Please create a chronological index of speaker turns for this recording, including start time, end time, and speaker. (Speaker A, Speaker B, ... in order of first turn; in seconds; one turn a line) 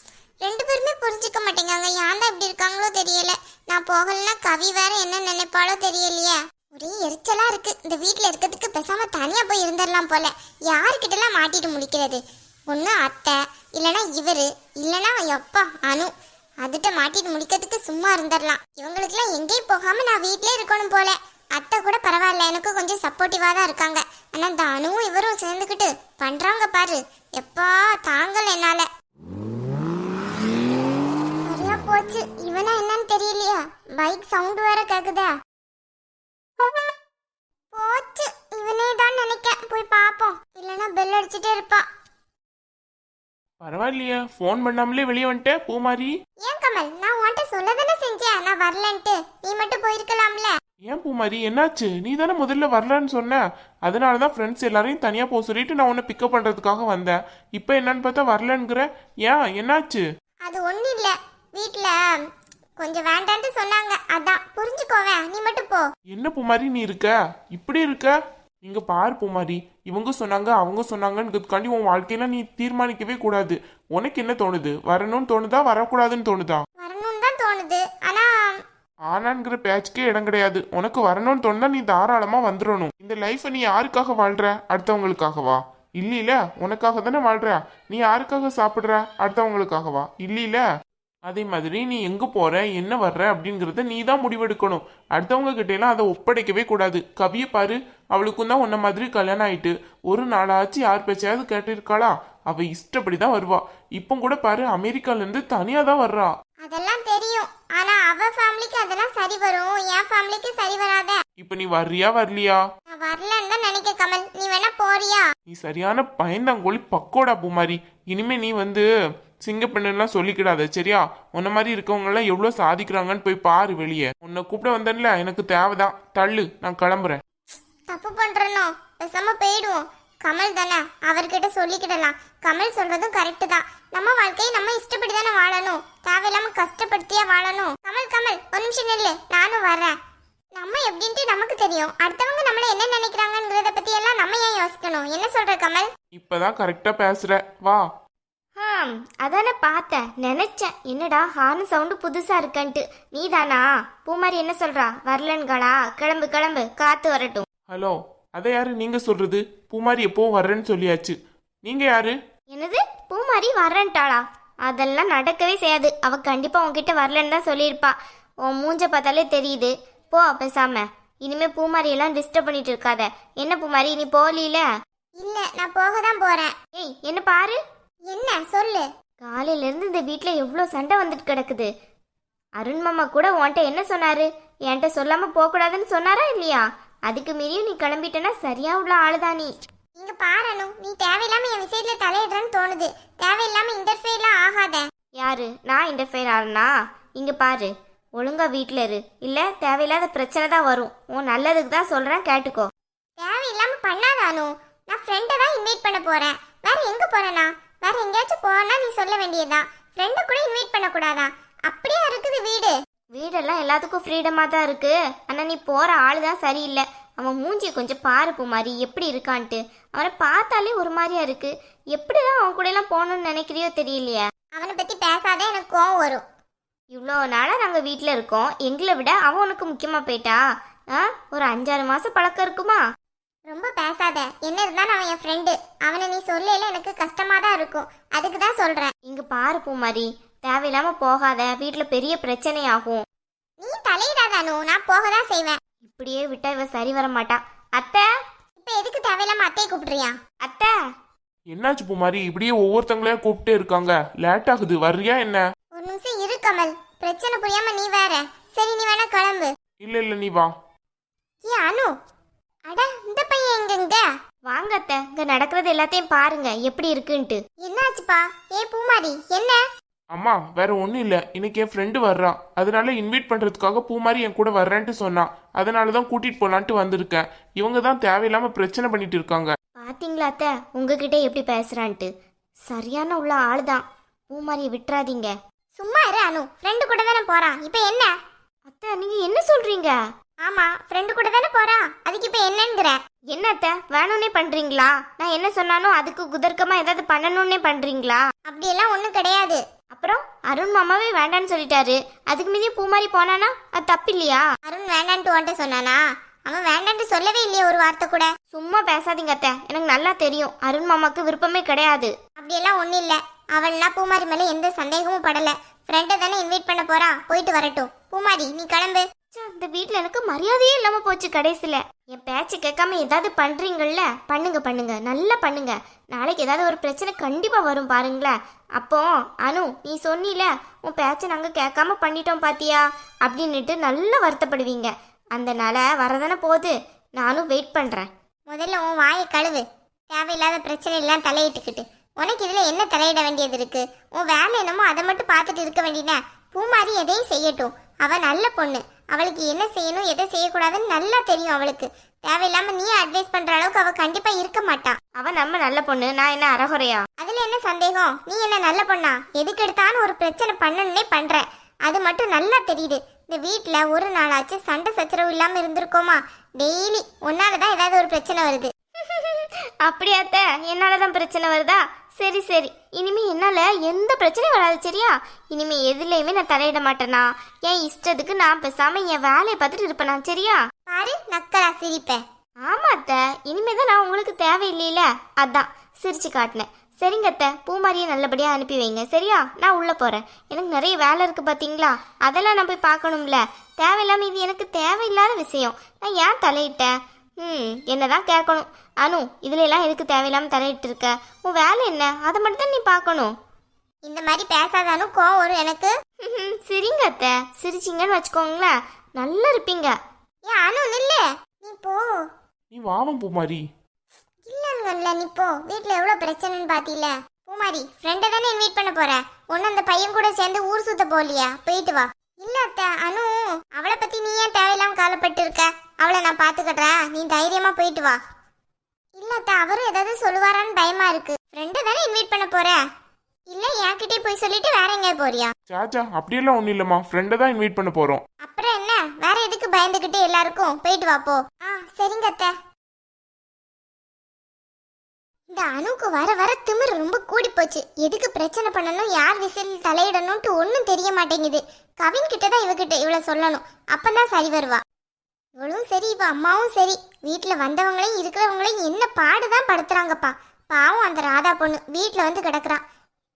Speaker A: 0.4-16.1
Speaker A: 16.6-28.9
Speaker A: 31.5-35.3
Speaker A: 37.7-41.8
Speaker B: 43.6-46.1
Speaker A: 46.4-50.5
Speaker B: 50.9-60.0
Speaker A: 60.4-62.2
Speaker A: 62.8-65.9
Speaker B: 66.1-68.1
Speaker B: 68.6-76.6
Speaker A: 76.8-78.5
Speaker B: 79.1-90.6
Speaker B: 91.3-106.3
Speaker A: 106.6-111.2
Speaker B: 111.4-112.6
Speaker A: 112.9-115.2
Speaker B: 115.5-118.8
Speaker B: 119.4-127.2
Speaker A: 127.9-139.9
Speaker A: 140.6-145.9
Speaker B: 146.1-147.8
Speaker C: 148.6-157.4
Speaker B: 157.7-162.1
Speaker C: 162.5-174.7
Speaker A: 175.2-176.5
Speaker C: 176.7-177.6
Speaker A: 178.1-178.8
Speaker C: 179.2-181.7
Speaker C: 182.6-189.5
Speaker A: 190.0-194.8
Speaker C: 195.2-202.7
Speaker A: 203.2-212.7
Speaker C: 213.1-224.3
Speaker A: 224.6-226.2
Speaker C: 226.9-232.8
Speaker A: 233.5-238.9
Speaker C: 239.0-243.0
Speaker A: 243.6-245.6
Speaker C: 245.8-248.1
Speaker A: 248.6-250.1
Speaker C: 250.4-250.8
Speaker B: 251.5-255.4
Speaker A: 255.7-259.5
Speaker B: 259.8-260.5
Speaker A: 261.4-261.9
Speaker A: 262.7-264.0
Speaker C: 264.5-267.4
Speaker A: 267.6-269.6
Speaker B: 270.1-279.5
Speaker C: 279.8-282.1
Speaker C: 282.7-285.3
Speaker A: 285.8-288.1
Speaker C: 288.7-290.0
Speaker A: 290.4-293.0
Speaker C: 293.3-298.2
Speaker A: 298.5-299.6
Speaker C: 299.9-304.4
Speaker A: 304.6-308.3
Speaker C: 308.5-312.1
Speaker A: 312.4-319.0
Speaker C: 319.3-338.1
Speaker A: 338.5-355.0
Speaker C: 355.2-357.0
Speaker A: 357.2-368.7
Speaker C: 369.0-380.6
Speaker A: 380.9-382.2
Speaker C: 382.6-403.3
Speaker A: 404.0-405.9
Speaker C: 406.2-409.9
Speaker A: 410.5-412.1
Speaker B: 412.7-413.6
Speaker A: 414.5-428.2
Speaker A: 429.2-432.8
Speaker A: 433.5-435.5
Speaker B: 435.7-438.2
Speaker A: 438.4-442.5
Speaker A: 445.5-454.8
Speaker A: 455.6-462.8